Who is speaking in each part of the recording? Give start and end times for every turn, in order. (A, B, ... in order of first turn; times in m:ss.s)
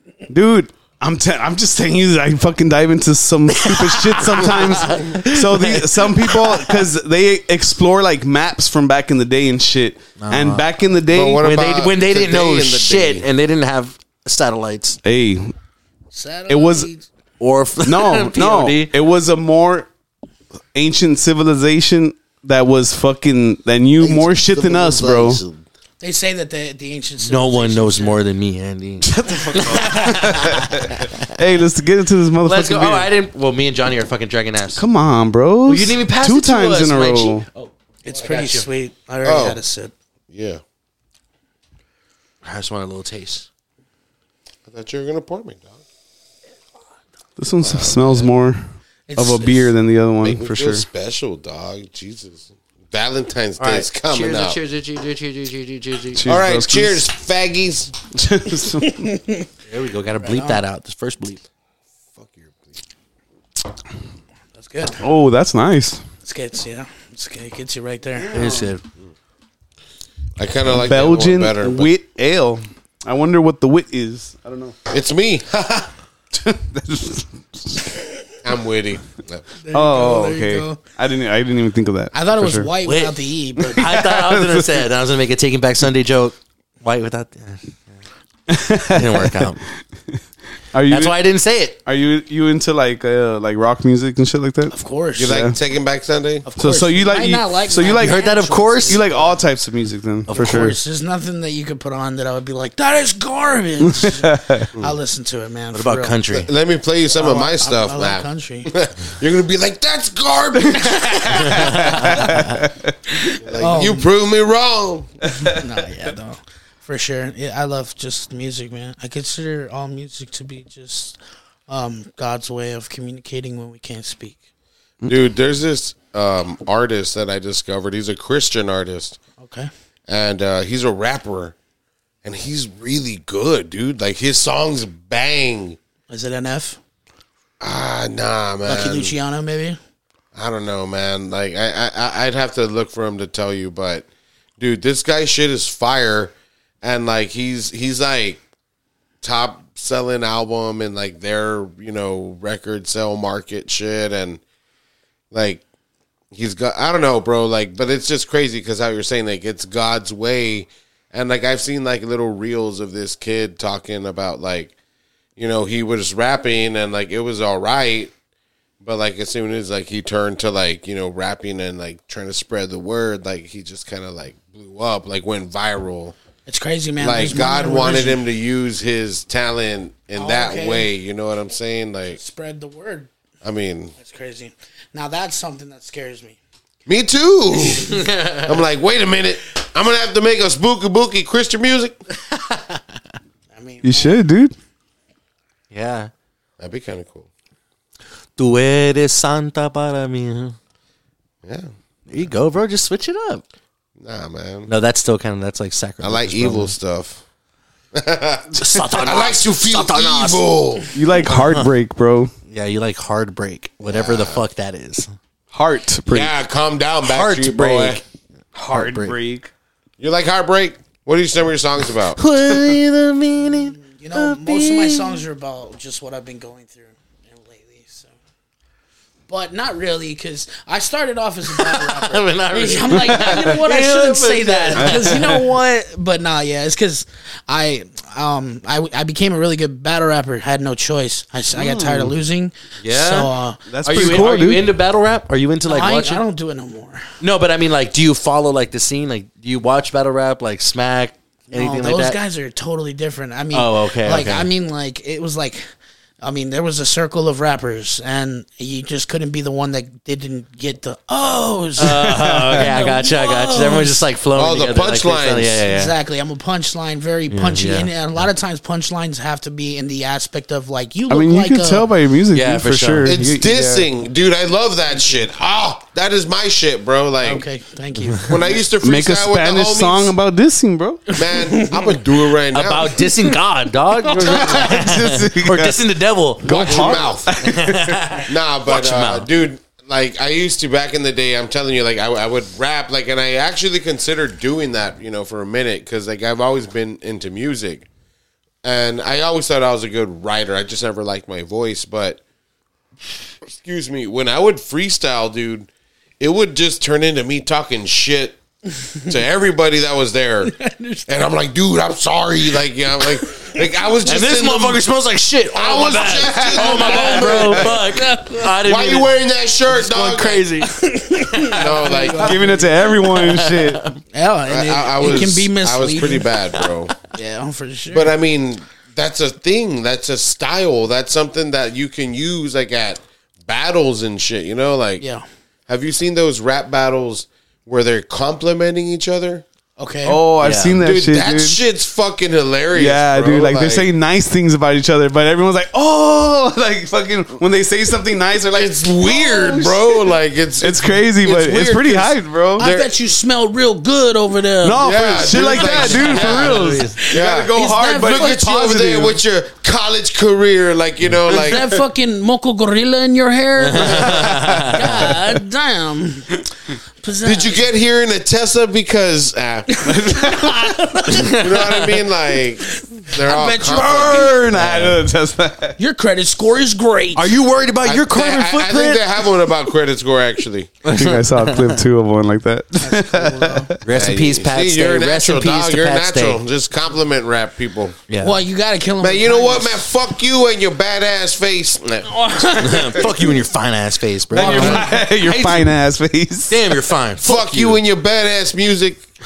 0:00.3-0:11.5 A
0:03.5-0:06.8 B
0:10.2-0:10.6 B
0:11.1-0:13.3 C
0:11.4-0:15.0 B
0:15.0-0:15.5 A
0:16.1-0:17.1 D
0:16.5-0:16.9 A
0:17.4-0:18.9 B
0:17.8-0:19.9 A
0:20.7-0:25.4 A
0:24.0-0:25.6 C
0:26.0-0:28.2 D
0:27.2-0:31.3 B
0:29.1-0:33.1 A
0:32.4-0:34.8 B
0:34.8-0:37.5 A
0:35.7-0:38.7 B
0:38.0-0:39.9 D
0:39.2-0:39.6 C
0:40.3-0:40.6 C
0:42.4-0:43.5 B
0:44.7-0:45.8 C
0:47.4-0:48.6 A
0:47.6-0:48.3 C
0:49.1-0:49.7 D
0:49.2-0:50.9 A
0:50.2-0:54.6 C
0:53.6-0:56.3 B
0:56.1-0:57.0 A
0:56.3-0:58.1 C
0:58.2-0:59.1 A
0:58.7-0:59.5 D
0:59.7-1:01.4 B
1:00.2-1:00.6 D
1:02.2-1:02.7 C
1:04.6-1:05.0 D
1:05.0-1:06.0 A
1:06.2-1:08.3 D
1:08.2-1:08.7 A
1:08.3-1:08.8 B
1:10.4-1:11.9 C
1:10.7-1:14.8 A
1:14.9-1:15.9 C
1:16.3-1:17.9 A
1:18.4-1:19.5 C
1:19.6-1:20.8 D
1:19.7-1:22.7 A
1:22.1-1:23.9 D
1:22.8-1:23.2 B
1:23.6-1:24.9 A
1:23.8-1:27.9 B
1:28.5-1:29.5 A
1:28.9-1:29.6 B
1:30.7-1:31.2 A
1:30.9-1:31.8 B
1:31.9-1:34.7 A
1:34.7-1:35.4 D
1:35.2-1:36.5 C
1:35.3-1:35.6 A
1:36.4-1:39.4 D
1:36.6-1:38.2 A
1:38.0-1:39.0 B
1:38.8-1:40.8 A
1:40.3-1:40.7 B
1:40.3-1:46.2 D
1:43.8-1:44.7 A
1:45.7-1:46.5 B
1:46.3-1:52.3 C
1:47.1-1:48.7 D
1:50.9-1:52.2 D
1:51.3-1:52.9 A
1:51.5-1:52.3 B
1:53.2-1:54.1 D
1:53.3-1:55.1 C
1:55.4-2:01.2 D
2:01.7-2:04.4 D
2:05.1-2:09.2 C
2:09.4-2:09.7 D
2:10.1-2:11.5 C
2:12.2-2:15.8 C
2:16.1-2:16.8 D
2:17.6-2:19.1 C
2:18.6-2:19.8 D
2:20.4-2:24.1 C
2:24.6-2:28.4 C
2:29.2-2:34.4 C
2:35.3-2:35.6 C
2:36.3-2:44.7 C
2:45.4-2:48.1 C
2:48.8-2:56.2 C
2:56.5-2:58.2 D
2:57.0-3:02.2 C
3:00.2-3:00.9 D
3:02.2-3:03.1 D
3:03.4-3:03.9 C
3:04.0-3:06.4 D
3:06.9-3:12.0 C
3:07.8-3:08.5 B
3:12.3-3:12.8 B
3:13.5-3:14.2 D
3:13.8-3:14.6 A
3:15.7-3:16.1 B
3:16.6-3:17.3 C
3:18.4-3:20.6 B
3:21.4-3:21.7 C
3:22.1-3:23.4 B
3:24.0-3:24.7 C
3:24.7-3:26.7 B
3:26.0-3:27.2 C
3:27.9-3:30.9 C
3:28.6-3:30.4 B
3:31.0-3:32.3 A
3:31.3-3:31.7 B
3:32.5-3:35.1 B
3:33.9-3:34.4 C
3:35.5-3:36.4 A
3:36.1-3:38.0 C
3:37.0-3:38.0 B
3:38.6-3:39.5 A
3:38.7-3:39.2 B
3:40.0-3:42.2 C
3:42.2-3:45.2 B
3:43.8-3:48.1 D
3:49.3-4:04.2 D
3:51.5-3:55.4 B
3:53.1-3:53.5 A
3:54.8-3:55.4 A
4:01.5-4:02.1 A
4:02.8-4:03.3 B
4:03.7-4:04.7 A
4:03.8-4:06.2 B
4:05.7-4:07.0 D
4:07.2-4:12.2 B
4:11.5-4:15.6 D
4:13.5-4:14.5 B
4:16.2-4:24.0 D
4:21.8-4:25.9 B
4:21.8-4:22.7 A
4:24.4-4:25.6 C
4:25.7-4:31.9 D
4:27.3-4:27.9 B
4:31.1-4:33.9 A
4:32.3-4:33.2 B
4:33.0-4:37.4 C
4:37.2-4:38.3 D
4:38.2-4:40.2 C
4:38.8-4:41.1 A
4:41.1-4:43.1 C
4:41.3-4:41.9 D
4:42.5-4:49.3 B
4:44.1-4:45.8 A
4:46.4-4:48.2 A
4:46.4-4:47.3 C
4:48.3-4:57.9 C
4:58.6-5:02.2 C
5:03.5-5:05.7 C
5:06.2-5:08.4 C
5:09.1-5:14.8 C
5:10.5-5:11.1 D
5:14.0-5:19.1 B
5:15.5-5:17.8 C
5:16.3-5:17.5 A
5:16.8-5:18.5 D
5:18.6-5:20.5 C
5:19.7-5:22.2 B
5:20.6-5:22.7 D
5:21.5-5:22.4 C
5:22.2-5:23.8 A
5:23.0-5:24.0 B
5:24.1-5:26.3 D
5:24.5-5:26.9 C
5:27.1-5:28.1 D
5:27.9-5:35.0 C
5:35.0-5:35.2 D
5:35.7-5:39.4 C
5:39.8-5:40.2 D
5:40.1-5:41.6 A
5:40.4-5:40.8 B
5:40.8-5:43.9 C
5:42.7-5:50.0 A
5:48.5-5:52.9 C
5:50.6-5:52.7 A
5:52.6-5:56.4 D
5:54.6-5:59.2 A
5:54.8-6:01.7 C
5:55.6-5:57.0 B
5:57.0-5:58.8 D
6:01.3-6:06.4 D
6:03.6-6:05.1 B
6:04.2-6:05.2 A
6:07.0-6:07.6 D
6:07.2-6:09.8 C
6:09.7-6:11.4 D
6:09.9-6:10.8 A
6:11.2-6:12.0 B
6:11.3-6:15.0 C
6:12.6-6:14.4 D
6:13.8-6:15.8 A
6:15.8-6:17.3 D
6:17.2-6:19.4 B
6:17.8-6:20.8 C
6:20.8-6:21.8 B
6:20.9-6:23.8 A
6:22.8-6:23.7 D
6:23.8-6:26.4 B
6:23.9-6:28.0 C
6:28.1-6:28.4 B
6:28.2-6:29.9 D
6:29.0-6:32.2 C
6:32.1-6:33.4 D
6:32.6-6:35.7 B
6:34.3-6:36.8 A
6:34.4-6:34.8 C
6:36.5-6:37.8 B
6:37.2-6:39.0 C